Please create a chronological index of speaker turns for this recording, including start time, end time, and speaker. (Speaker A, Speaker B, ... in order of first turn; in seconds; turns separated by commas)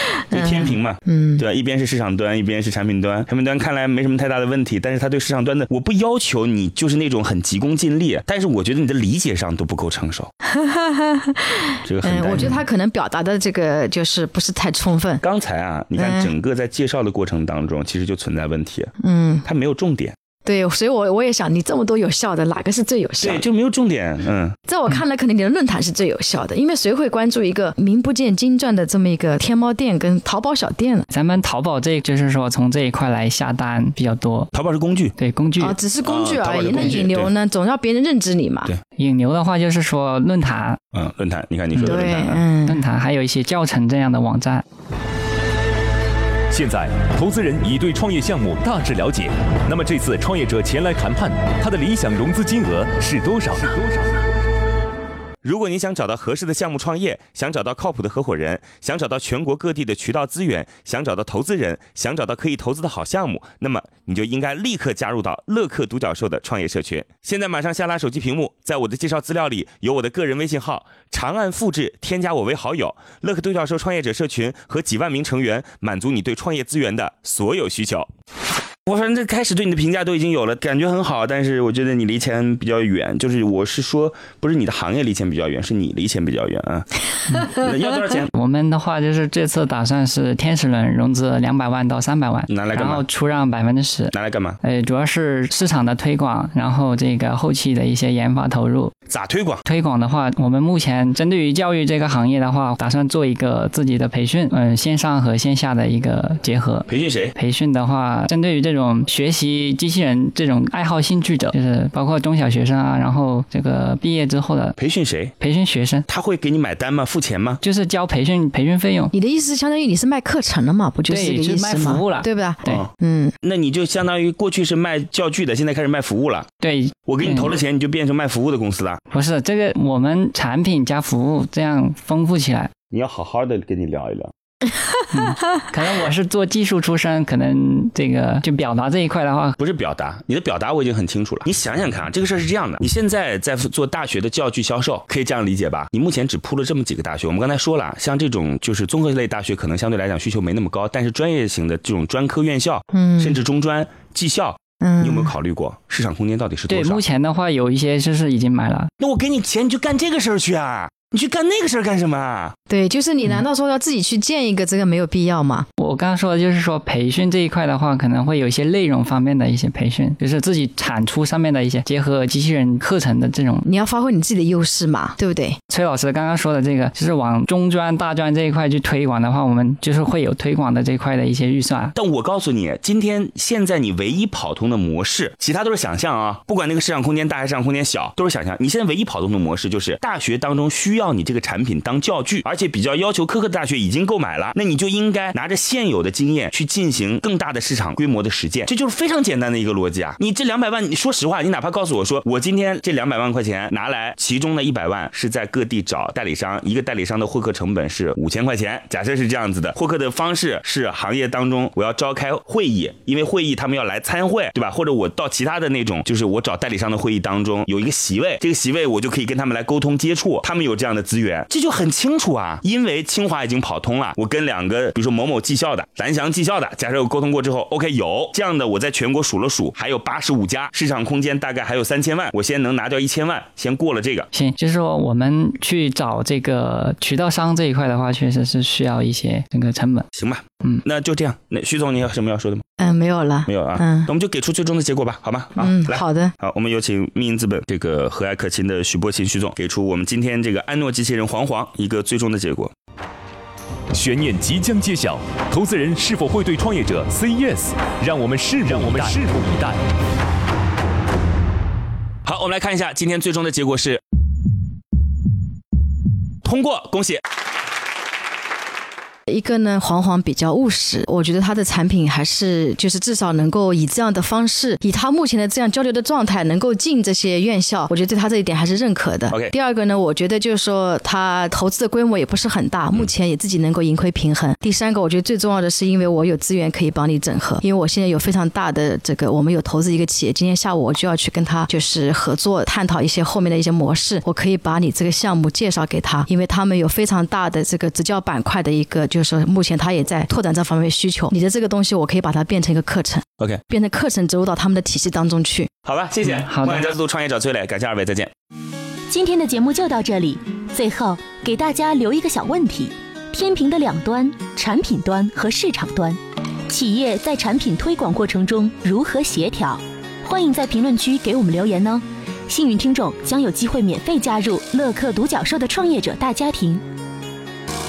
Speaker A: 0.3-10.3, Speaker B: 0.3-1.4, Speaker B: 10.5-15.2, Speaker A: 11.9-12.6, Speaker A: 15.2-18.9, Speaker B: 16.0-16.3, Speaker B: 19.0-19.5, Speaker A: 19.4-20.1, Speaker B: 20.4-23.4, Speaker A: 23.2-24.6, Speaker B: 24.7-31.1, Speaker C: 31.1-34.5, Speaker A: 34.5-35.2, Speaker C: 35.2-35.8, Speaker B: 35.6-38.7, Speaker A: 36.0-37.3, Speaker C: 36.7-37.0, Speaker C: 39.0-40.8, Speaker A: 40.9-42.4, Speaker C: 41.8-44.6, Speaker B: 41.8-42.9, Speaker D: 46.5-54.1, Speaker A: 55.4-78.1, Speaker A: 78.9-86.9, Speaker C: 87.3-87.6, Speaker A: 87.5-88.3, Speaker C: 88.3-98.9, Speaker A: 92.5-93.0, Speaker A: 94.1-94.6, Speaker A: 99.1-99.6, Speaker C: 99.7-114.8, Speaker A: 106.9-107.3, Speaker A: 114.8-115.3, Speaker C: 115.4-116.1, Speaker A: 116.1-117.6, Speaker C: 117.6-119.1, Speaker B: 119.1-123.3, Speaker C: 121.1-122.8, Speaker A: 123.4-126.5, Speaker C: 126.6-127.5, Speaker A: 127.1-129.0, Speaker C: 129.1-132.7, Speaker A: 132.9-134.3, Speaker C: 135.1-139.6, Speaker A: 139.6-157.0, Speaker B: 152.9-153.4, Speaker B: 154.8-155.3, Speaker C: 156.7-158.9, Speaker A: 159.0-162.6, Speaker B: 162.7-165.7, Speaker C: 165.8-173.7, Speaker B: 173.6-175.6, Speaker C: 175.7-181.9, Speaker A: 182.0-234.3, Speaker C: 234.3-240.1, Speaker A: 240.1-242.6, Speaker B: 242.8-244.1, Speaker A: 243.5-252.7, Speaker B: 245.6-246.3, Speaker D: 253.9-259.8, Speaker A: 258.7-259.2, Speaker A: 262.3-264.0, Speaker A: 266.4-267.2, Speaker B: 269.3-305.7, Speaker A: 279.3-279.5, Speaker A: 305.9-308.3, Speaker C: 306.2-306.9, Speaker E: 309.1-326.8